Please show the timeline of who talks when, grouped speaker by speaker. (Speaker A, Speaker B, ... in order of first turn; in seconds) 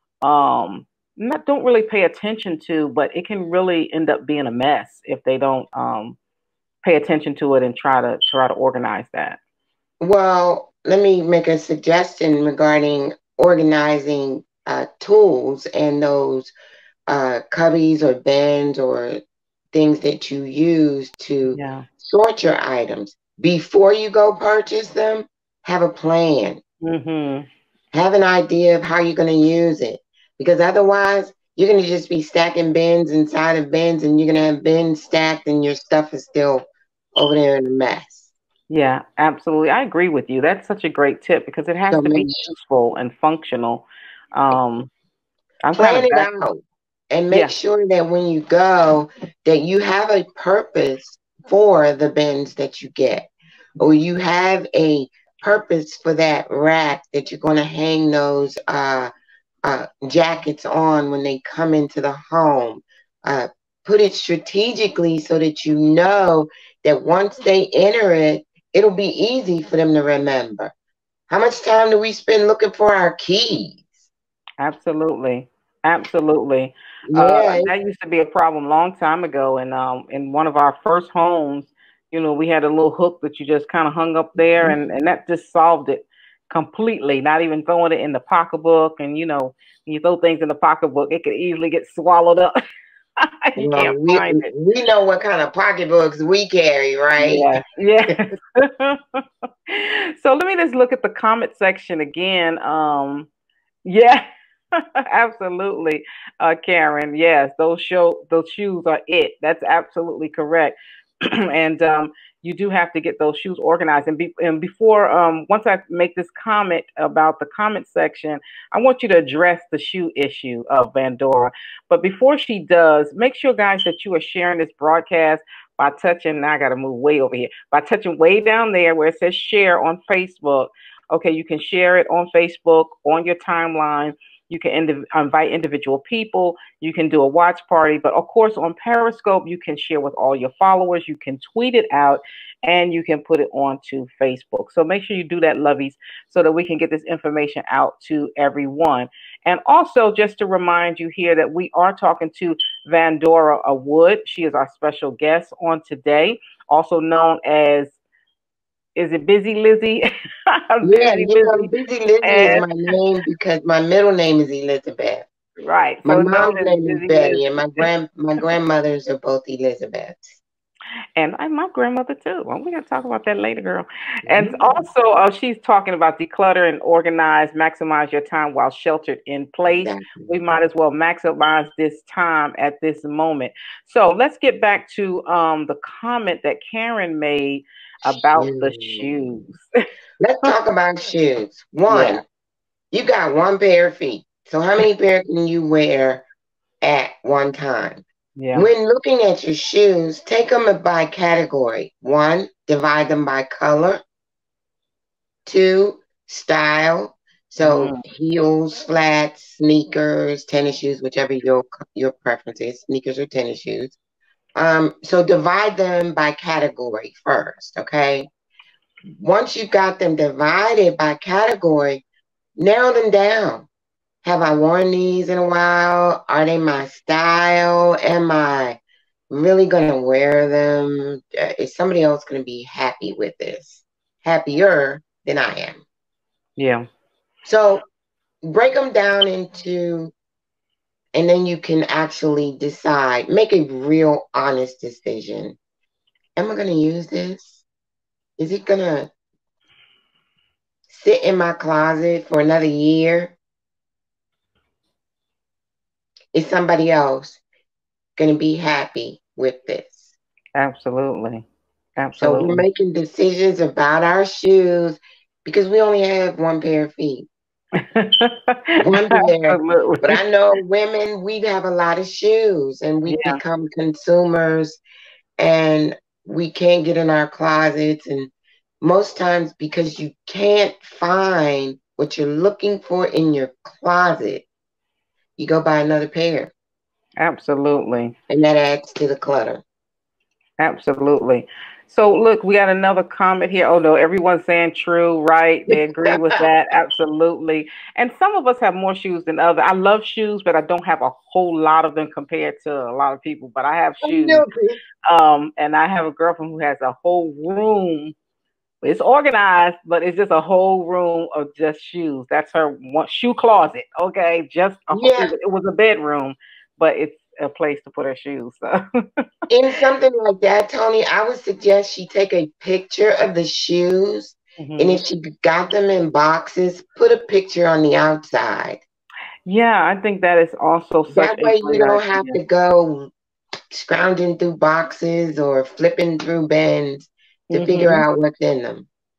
Speaker A: 0.2-6.2, 6.8-9.4, 21.5-21.9, 26.8-27.5, 38.7-44.9, 45.6-46.3, 74.6-92.5, 93.2-94.5, 97.2-103.3, 103.8-104.2, 105.1-110.8, 111.3-158.0, 159.0-161.7, 162.2-162.7, 165.6-167.9, 171.2-189.7, 191.9-192.2, 198.4-198.7, 207.6-208.0, 236.6-236.9, 260.6-261.5, 262.0-262.6, 267.8-270.2, 273.1-273.4, 287.2-288.1, 290.6-304.5, 305.1-308.1, 308.8-318.8, 324.6-325.0, 329.5-332.4, 337.5-338.0
Speaker B: 10.0-16.5, 17.1-19.2, 19.7-26.6, 27.9-38.3, 41.9-42.5, 45.7-53.3, 53.8-59.1, 59.6-70.7, 71.3-73.9, 77.1-77.7, 84.4-84.8, 93.6-97.5, 160.8-165.3, 166.1-170.4, 174.3-174.6, 179.7-180.3, 188.3-189.2, 190.2-192.2, 192.9-196.2, 196.8-198.0, 198.6-204.0, 205.5-214.0, 214.6-218.3, 219.1-222.0, 222.6-223.7, 224.2-228.8, 229.3-235.8, 237.4-237.8, 238.4-240.1, 241.2-245.6, 246.4-247.6, 248.4-249.1, 250.9-253.4, 256.3-257.4, 258.2-260.1, 262.2-267.3, 268.8-274.8, 275.4-278.3, 278.8-284.5, 285.4-286.5, 288.3-289.6, 295.7-296.4, 304.0-304.8, 314.9-315.3, 319.5-328.8, 331.1-333.1, 333.7-338.9